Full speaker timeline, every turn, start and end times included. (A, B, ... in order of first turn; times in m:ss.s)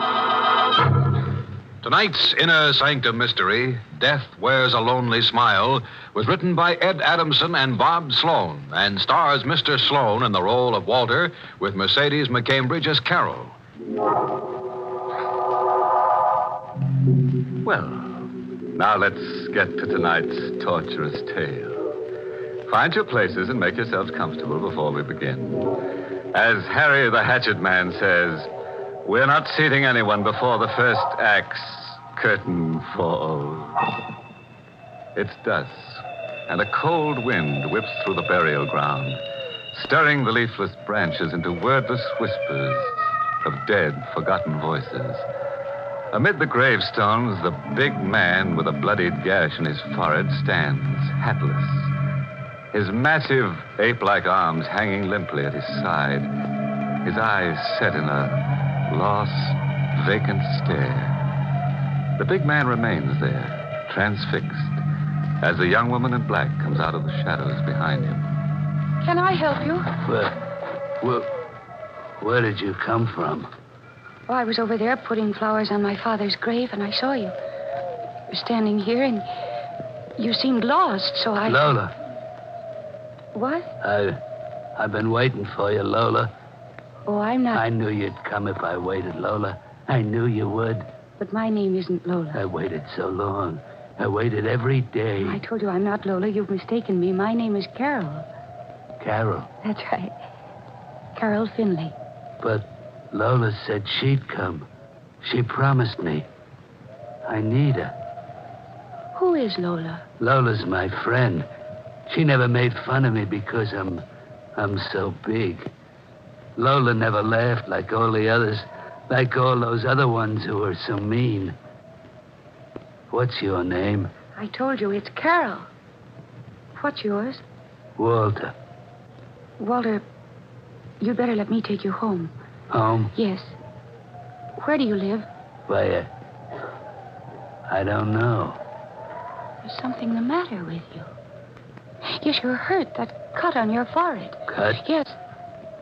0:01.8-0:13.6 A
0:17.6-0:18.2 B
0:18.7-0:21.9 B
0:22.7-0:25.7 B
0:26.3-0:28.5 B
0:29.0-0:33.9 B
0:35.1-0:39.2 B
0:39.7-0:45.2 B
0:46.1-0:51.9 B
0:52.7-0:56.3 B
0:57.0-1:01.2 B
1:02.2-1:04.8 B
1:05.4-1:08.3 B
1:09.0-1:09.9 C
1:10.0-1:10.4 D
1:11.0-1:11.3 D
1:12.2-1:13.5 D
1:14.3-1:17.3 C
1:18.3-1:19.3 C
1:20.2-1:21.7 C
1:21.4-1:21.9 D
1:23.3-1:23.7 C
1:23.8-1:24.2 D
1:24.8-1:26.3 D
1:27.1-1:27.6 C
1:27.5-1:30.9 D
1:31.2-1:32.4 C
1:32.3-1:35.4 D
1:35.2-1:38.3 C
1:39.0-1:39.5 D
1:39.6-1:40.1 C
1:41.2-1:41.9 C
1:42.4-1:44.7 D
1:45.2-1:46.3 D
1:47.2-1:47.9 D
1:49.1-1:50.0 C
1:50.2-1:51.5 D
1:52.1-1:54.0 D
1:54.6-1:55.7 D
1:56.6-2:01.6 D
2:03.1-2:04.1 D
2:04.4-2:05.7 C
2:06.8-2:07.4 C
2:08.0-2:08.5 D
2:09.6-2:10.0 C
2:11.0-2:12.3 C
2:12.7-2:13.1 D
2:13.1-2:13.5 C
2:14.6-2:15.3 C
2:15.7-2:16.1 D
2:17.7-2:18.6 D
2:19.6-2:21.1 C
2:22.0-2:25.1 C
2:24.5-2:24.8 D